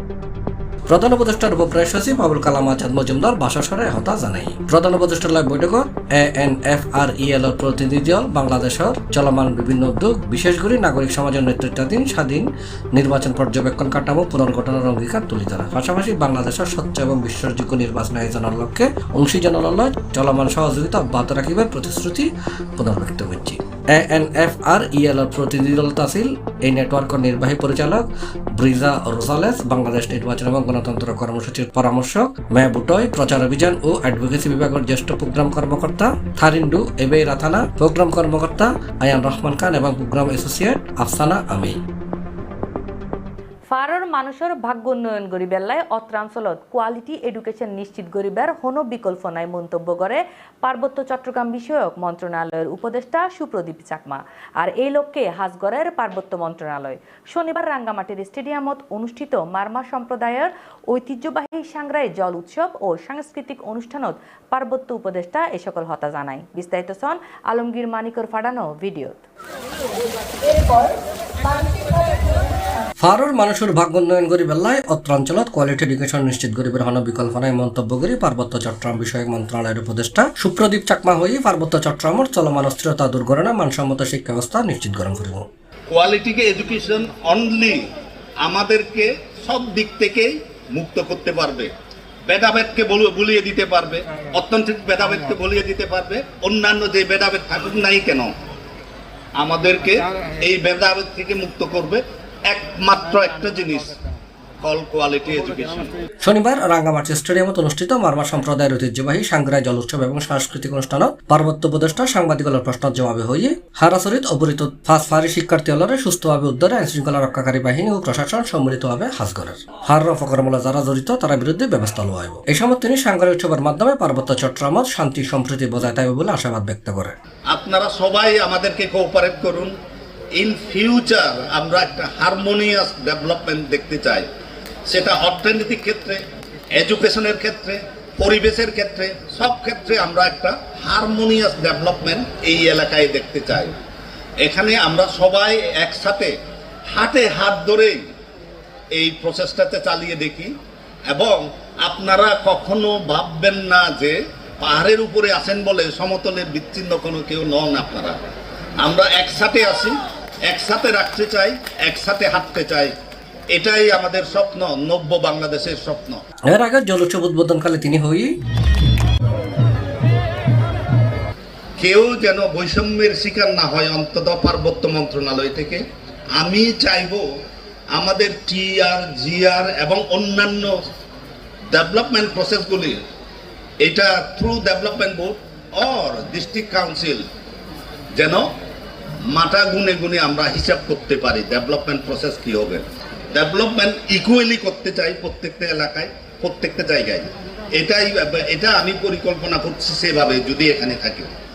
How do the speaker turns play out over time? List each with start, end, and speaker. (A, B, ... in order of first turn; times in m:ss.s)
0:00.9-0:41.8 A
0:43.7-1:09.2 B
1:13.0-1:25.4 A
1:25.9-1:27.8 C
1:28.4-1:31.7 C
1:32.2-1:38.3 C
1:39.4-1:44.0 C
1:44.6-1:45.9 C
1:46.2-2:07.1 A
2:07.5-2:09.7 C
2:10.4-2:14.3 C
2:14.8-2:16.2 C
2:16.8-2:23.7 C
2:24.4-2:26.3 C
2:26.9-2:28.0 C
2:28.9-2:30.5 C
2:31.1-2:38.2 C
2:38.8-2:42.9 C
2:43.5-2:46.2 C
2:46.5-2:48.3 A
2:51.8-2:55.8 C
2:56.4-2:57.2 C
2:57.9-3:00.7 C
3:01.7-3:03.0 C
3:03.8-3:07.2 C
3:08.1-3:08.5 C
3:09.3-3:21.3 C